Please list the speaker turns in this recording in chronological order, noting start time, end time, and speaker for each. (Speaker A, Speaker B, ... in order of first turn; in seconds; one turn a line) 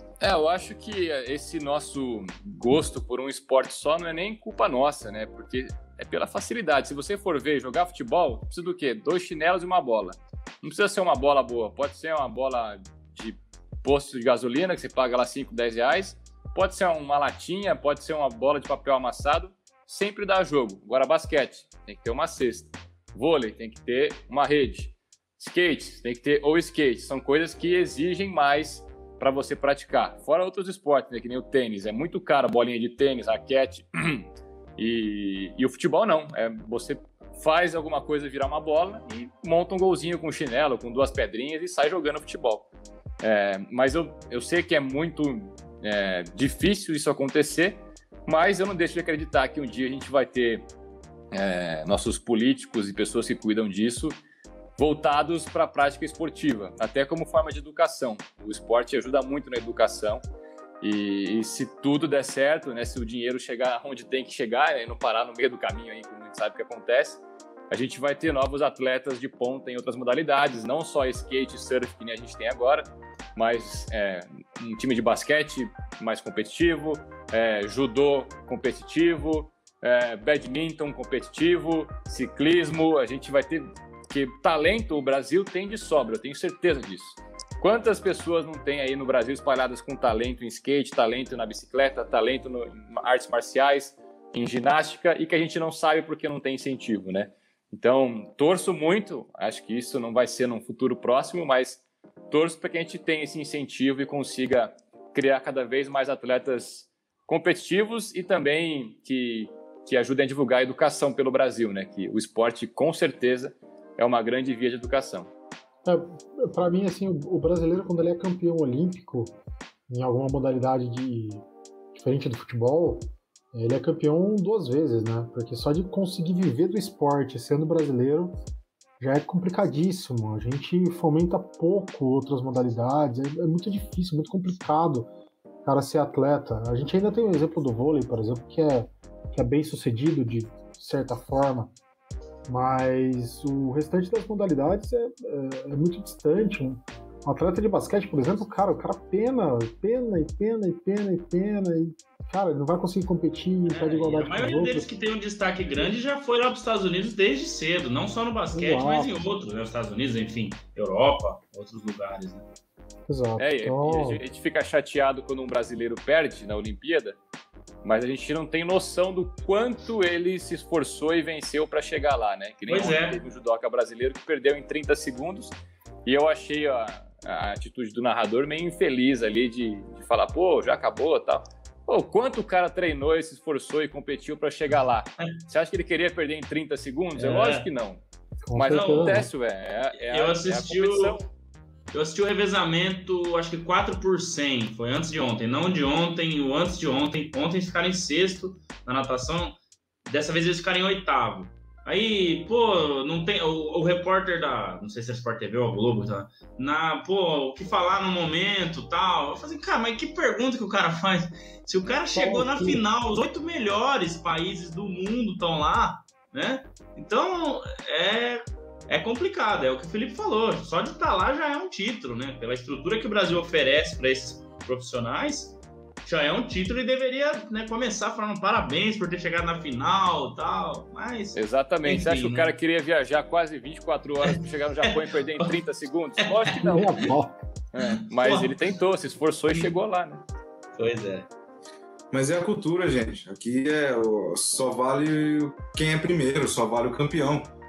Speaker A: 0.2-34.2
Speaker A: 34.8-42.7
Speaker A: 43.2-50.6
Speaker A: 51.3-54.1
Speaker A: 54.8-60.2
Speaker A: 60.8-72.8
Speaker A: 73.3-115.3
Speaker B: 115.8-119.4
Speaker B: 119.9-128.4
Speaker B: 129.0-135.1
Speaker B: 135.6-141.7
Speaker B: 142.5-154.8
Speaker C: 153.7-162.4
Speaker B: 158.5-159.3
Speaker B: 163.1-164.2
Speaker A: 163.4-167.2
Speaker A: 167.8-175.5
Speaker C: 172.7-173.2
Speaker A: 176.1-188.0
Speaker C: 187.2-187.7
Speaker B: 188.4-189.3
Speaker A: 188.5-191.3
Speaker C: 188.6-189.3
Speaker C: 190.1-191.2
Speaker C: 191.9-199.5
Speaker C: 200.1-232.5
Speaker B: 212.1-212.8
Speaker A: 231.3-237.0
Speaker C: 234.2-235.5
Speaker C: 236.2-236.9
Speaker B: 236.6-237.4
Speaker A: 237.7-240.2
Speaker C: 237.8-238.6
Speaker C: 240.7-241.3
Speaker D: 242.1-247.5